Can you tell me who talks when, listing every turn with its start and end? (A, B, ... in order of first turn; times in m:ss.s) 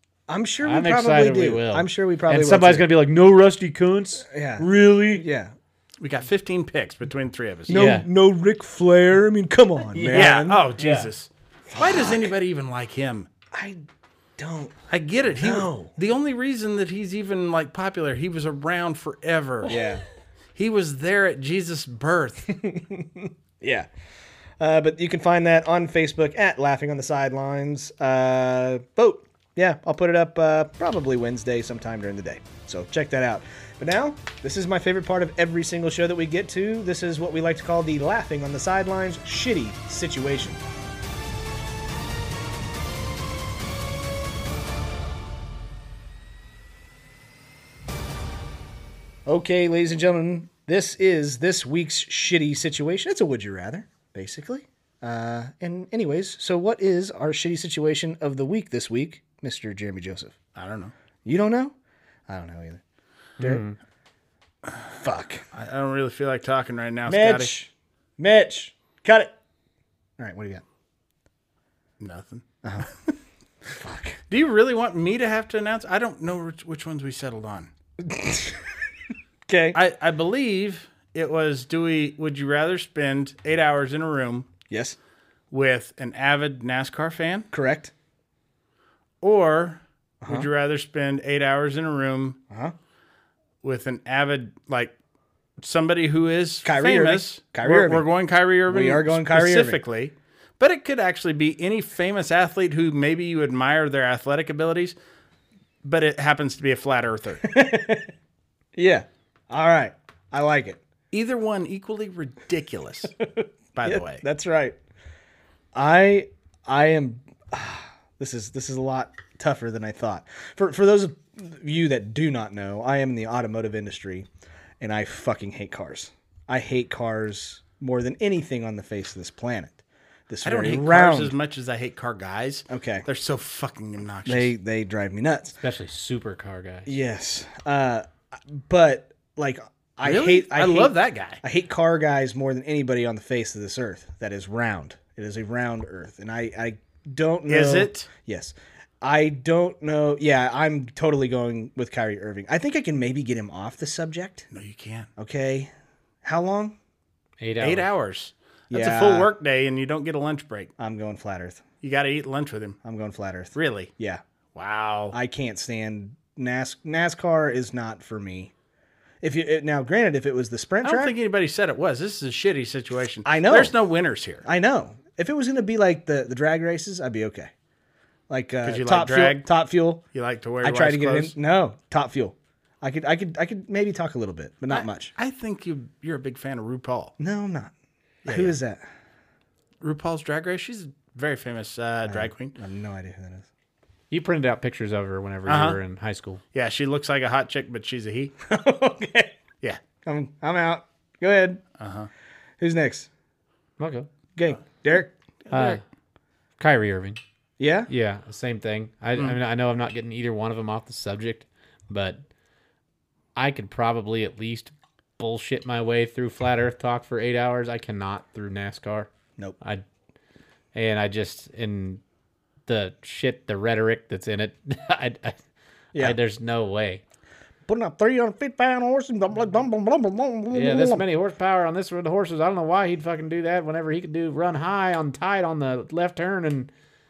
0:00.3-0:02.9 A
0:00.6-0:05.2 B
0:04.3-0:04.6 A
0:05.2-0:05.5 A
0:06.0-0:07.9 C
0:07.7-0:10.6 A
0:07.7-0:08.0 B
0:09.9-0:11.1 B
0:10.1-0:13.3 C
0:11.7-0:12.3 A
0:13.5-0:13.8 A
0:14.4-0:14.7 A
0:14.9-0:19.8 C
0:15.3-0:15.9 A
0:19.6-0:20.0 A
0:20.6-0:22.6 C
0:22.5-0:23.9 A
0:24.6-0:40.6 A
0:49.3-1:00.4 A
1:00.6-1:00.9 C
1:01.2-1:01.8 A
1:02.3-1:02.8 A
1:03.4-1:03.8 B
1:04.9-1:05.4 A
1:05.5-1:07.5 C
1:07.1-1:09.3 A
1:10.2-1:10.6 A
1:12.0-1:12.4 C
1:12.6-1:13.1 A
1:13.7-1:14.2 A
1:14.3-1:17.7 C
1:18.0-1:18.7 A
1:19.5-1:19.8 A
1:19.7-1:24.5 C
1:24.7-1:25.0 A
1:25.5-1:27.5 C
1:27.5-1:27.9 A
1:29.2-1:32.4 C
1:30.2-1:30.5 A
1:33.6-1:34.9 C
1:35.6-1:45.0 C
1:36.6-1:38.1 A
1:38.7-1:39.8 A
1:45.8-1:47.6 C
1:47.4-1:48.1 A
1:48.8-1:50.8 A
1:51.1-1:53.2 C
1:53.2-1:54.8 A
1:53.8-1:54.2 C
1:55.7-2:04.3 A
2:04.8-2:11.4 A
2:10.4-2:14.5 C
2:12.7-2:13.1 A
2:14.3-2:15.6 A
2:15.6-2:17.0 B
2:16.9-2:34.5 A
2:20.0-2:21.4 C
2:27.5-2:28.1 C
2:34.5-2:35.1 C
2:35.2-2:35.7 A
2:36.2-2:36.8 A
2:37.4-2:37.9 B
2:37.6-2:40.7 C
2:38.7-2:39.3 A
2:40.8-2:41.6 A
2:41.8-2:42.8 C
2:42.8-2:44.2 A
2:43.6-2:43.9 C
2:44.6-2:45.2 C
2:45.1-2:48.5 A
2:49.2-2:51.1 A
2:50.8-2:54.4 C
2:53.3-2:53.8 A
2:54.4-2:57.5 A
2:58.3-3:00.0 A
2:58.6-2:59.5 C
3:00.1-3:01.4 C
3:00.6-3:05.1 A
3:04.7-3:07.1 C
3:07.2-3:07.7 A
3:08.2-3:08.6 C
3:08.3-3:08.8 A
3:09.8-3:12.6 C
3:12.1-3:13.5 A
3:14.1-3:16.4 B
3:15.5-3:15.8 C
3:16.5-3:18.3 C
3:18.5-3:19.3 A
3:20.0-3:21.6 A
3:21.8-3:22.1 C
3:22.6-3:23.1 A
3:23.8-3:24.1 B
3:24.4-3:25.1 A
3:25.5-3:25.8 C
3:25.5-3:25.8 B
3:26.6-3:27.2 B
3:27.6-3:27.9 A
3:27.9-3:32.2 B
3:33.4-3:39.8 B
3:40.7-3:42.0 B
3:42.7-3:45.4 B
3:46.0-3:47.0 B
3:47.7-3:51.0 A
3:50.5-3:56.7 B